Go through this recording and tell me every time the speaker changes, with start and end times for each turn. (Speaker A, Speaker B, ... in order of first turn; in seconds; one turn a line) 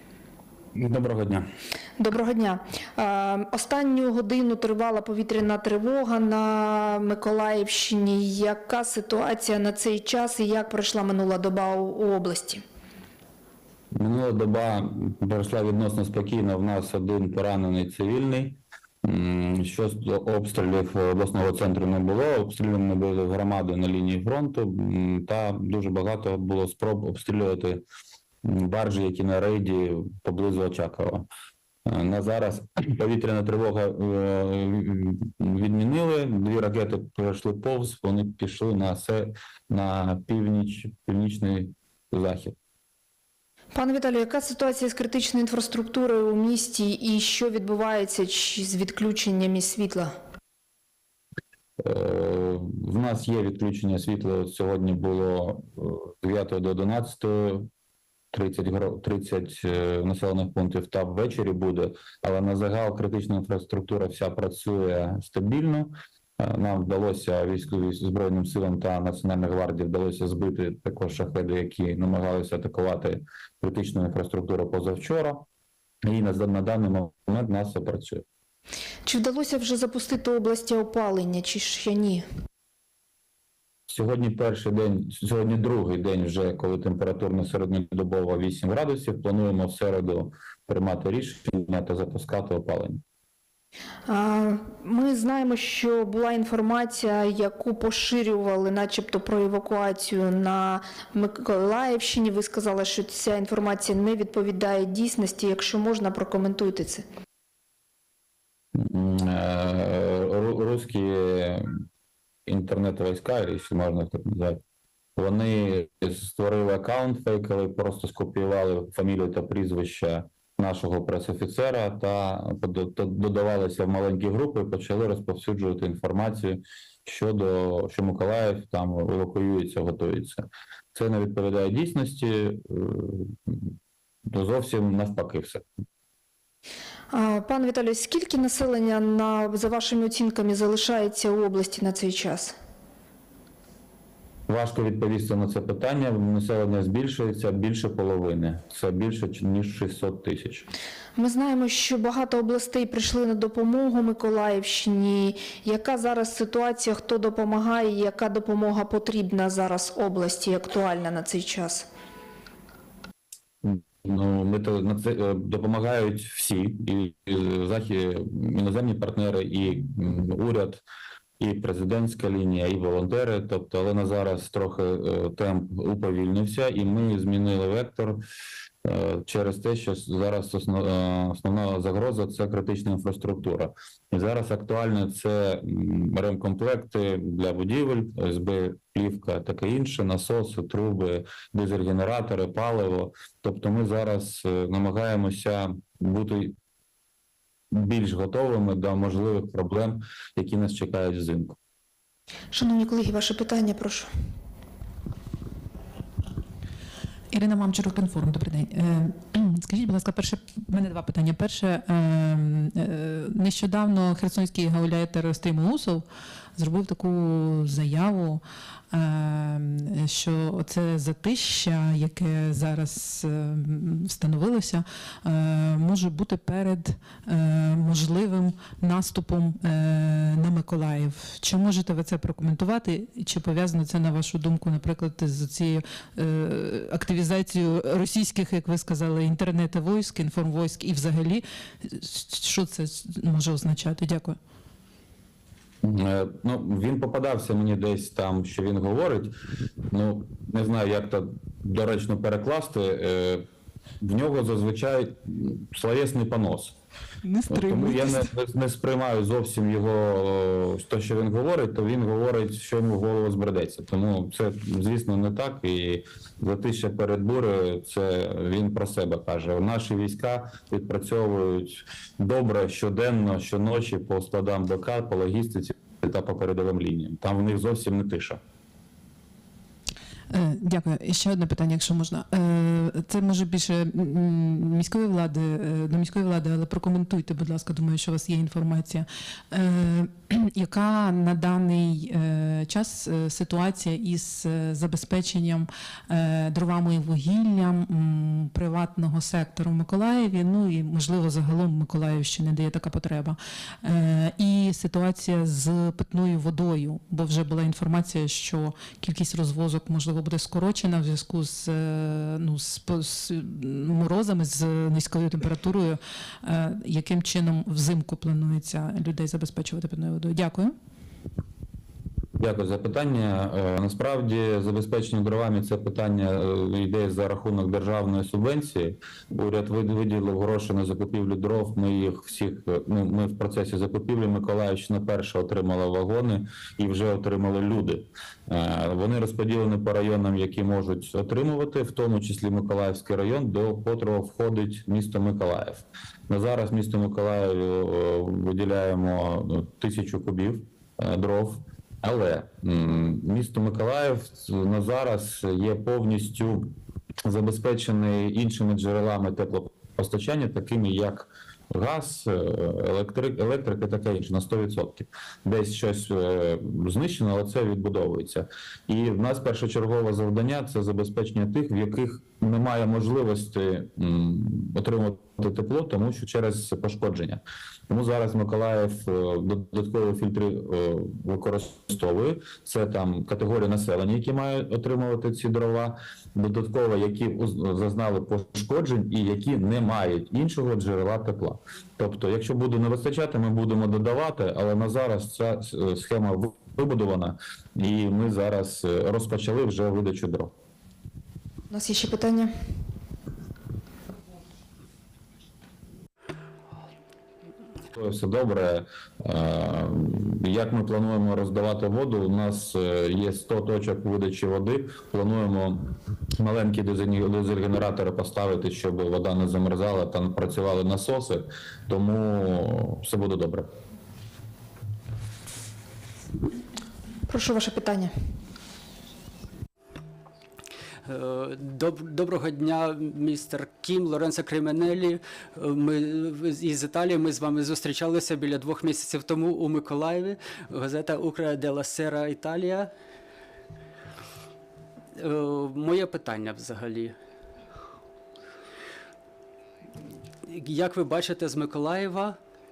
Speaker A: 0.8-1.5
Speaker B: 2.0-12.6
Speaker A: 13.9-27.9
Speaker A: 28.4-31.3
Speaker A: 31.9-42.6
Speaker B: 43.7-50.1
Speaker A: 51.8-57.7
Speaker A: 58.3-75.5
Speaker A: 76.0-78.2
Speaker B: 79.0-82.2
Speaker A: 83.9-93.0
Speaker B: 94.1-107.0
Speaker A: 108.8-111.7
Speaker A: 112.5-114.6
Speaker A: 115.2-133.8
Speaker A: 134.3-135.7
Speaker B: 137.1-142.5
Speaker A: 144.5-150.7
Speaker B: 151.2-161.9
Speaker A: 163.6-170.8
Speaker A: 171.4-178.2
Speaker A: 178.8-196.6
Speaker A: 197.7-201.6
Speaker B: 202.5-204.1
Speaker C: 207.3-216.1
Speaker C: 216.6-244.4
Speaker A: 245.8-249.3
Speaker A: 249.9-253.5
Speaker A: 254.0-256.8
Speaker C: 257.2-258.3
Speaker A: 257.5-278.4
Speaker C: 280.3-320.7
Speaker A: 322.4-356.7
Speaker A: 357.2-400.5
Speaker B: 401.7-402.5
Speaker A: 407.9-423.7
Speaker B: 427.3-428.1
Speaker D: 431.1-442.9
Speaker D: 445.2-447.2
Speaker D: 450.5-452.4